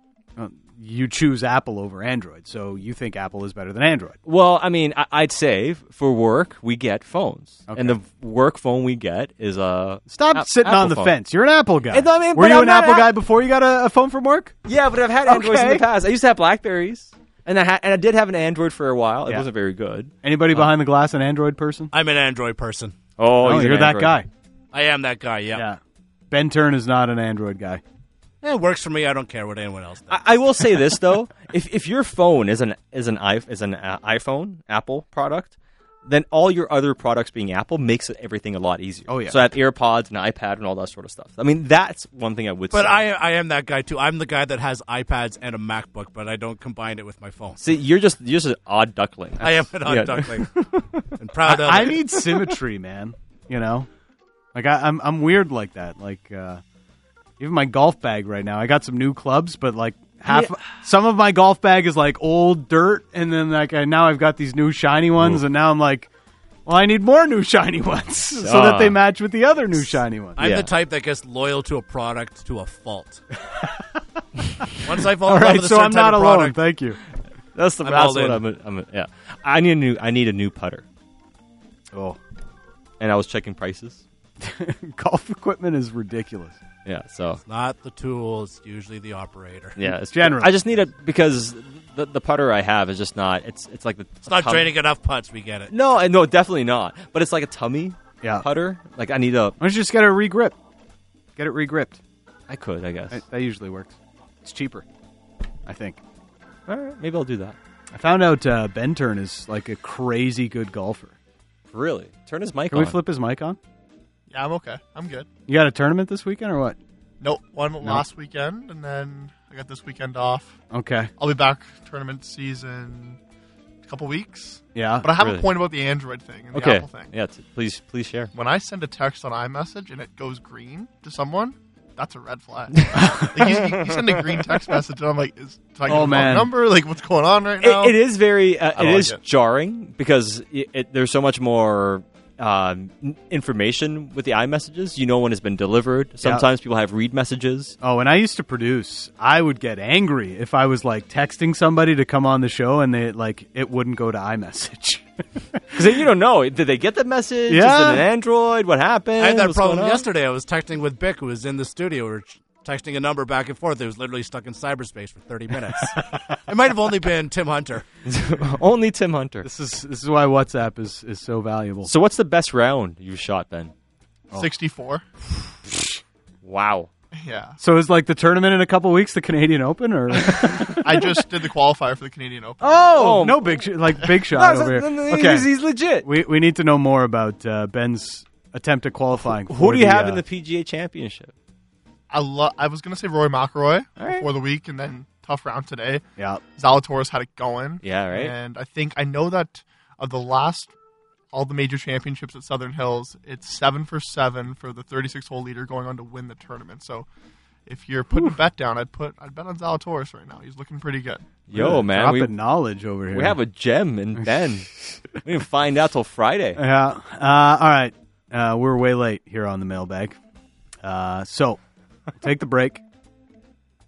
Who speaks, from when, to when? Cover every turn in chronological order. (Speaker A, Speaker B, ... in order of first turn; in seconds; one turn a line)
Speaker A: 0.4-4.2
Speaker B: 4.2-11.2
Speaker A: 7.7-8.0
Speaker A: 10.1-14.6
Speaker B: 11.9-13.1
Speaker B: 14.7-20.1
Speaker A: 15.3-15.8
Speaker A: 20.2-21.9
Speaker C: 21.9-23.0
Speaker B: 23.2-24.2
Speaker A: 23.4-24.3
Speaker C: 24.7-25.6
Speaker A: 25.5-25.8
Speaker A: 26.3-27.8
Speaker C: 28.4-30.3
Speaker B: 30.1-35.5
Speaker B: 36.0-43.0
Speaker A: 39.1-39.4
Speaker C: 42.7-47.6
Speaker B: 47.6-51.1
Speaker C: 49.4-50.5
Speaker C: 51.2-52.0
Speaker A: 51.5-53.9
Speaker A: 54.5-56.6
Speaker A: 57.4-66.1
Speaker A: 66.7-70.4
Speaker B: 68.4-69.0
Speaker C: 70.4-73.2
Speaker B: 70.4-70.7
Speaker C: 74.8-76.6
Speaker A: 75.2-77.0
Speaker B: 77.5-80.8
Speaker C: 77.8-78.4
Speaker A: 81.9-82.2
Speaker B: 83.0-84.0
Speaker A: 84.4-86.6
Speaker B: 86.8-87.4
Speaker C: 87.5-89.8
Speaker B: 89.8-94.7
Speaker A: 89.9-90.6
Speaker C: 94.3-95.7
Speaker B: 95.7-99.6
Speaker A: 99.6-100.6
Speaker A: 101.4-102.0
Speaker B: 102.5-103.2
Speaker A: 103.1-104.9
Speaker A: 105.7-106.0
Speaker B: 106.7-107.6
Speaker A: 107.9-111.1
Speaker B: 111.7-113.0
Speaker A: 112.7-113.6
Speaker D: 114.3-115.3
Speaker A: 115.5-116.8
Speaker D: 117.2-120.6
Speaker A: 120.7-121.1
Speaker D: 121.2-123.2
Speaker D: 123.8-127.1
Speaker A: 124.8-125.1
Speaker B: 125.2-125.5
Speaker B: 126.5-128.3
Speaker D: 128.3-138.0
Speaker A: 132.9-133.4
Speaker B: 133.5-134.4
Speaker A: 135.9-136.5
Speaker B: 137.6-147.8
Speaker D: 138.8-139.2
Speaker A: 147.8-155.7
Speaker B: 155.7-160.1
Speaker A: 157.5-158.1
Speaker C: 159.2-167.8
Speaker B: 168.1-169.5
Speaker A: 169.4-171.9
Speaker B: 171.8-173.7
Speaker D: 174.3-175.0
Speaker B: 176.4-176.9
Speaker D: 177.2-177.6
Speaker A: 177.6-181.2
Speaker B: 180.2-180.6
Speaker D: 180.6-182.6
Speaker A: 182.6-185.5
Speaker B: 182.7-186.1
Speaker A: 186.0-190.2
Speaker B: 189.1-191.3
Speaker D: 192.1-196.0
Speaker B: 194.0-194.3
Speaker A: 196.2-196.4
Speaker D: 196.6-200.7
Speaker B: 197.8-198.3
Speaker D: 201.3-207.1
Speaker D: 207.7-211.3
Speaker B: 211.5-212.3
Speaker A: 211.5-213.4
Speaker B: 213.1-216.6
Speaker A: 216.6-220.2
Speaker A: 220.8-221.6
Speaker A: 222.2-222.8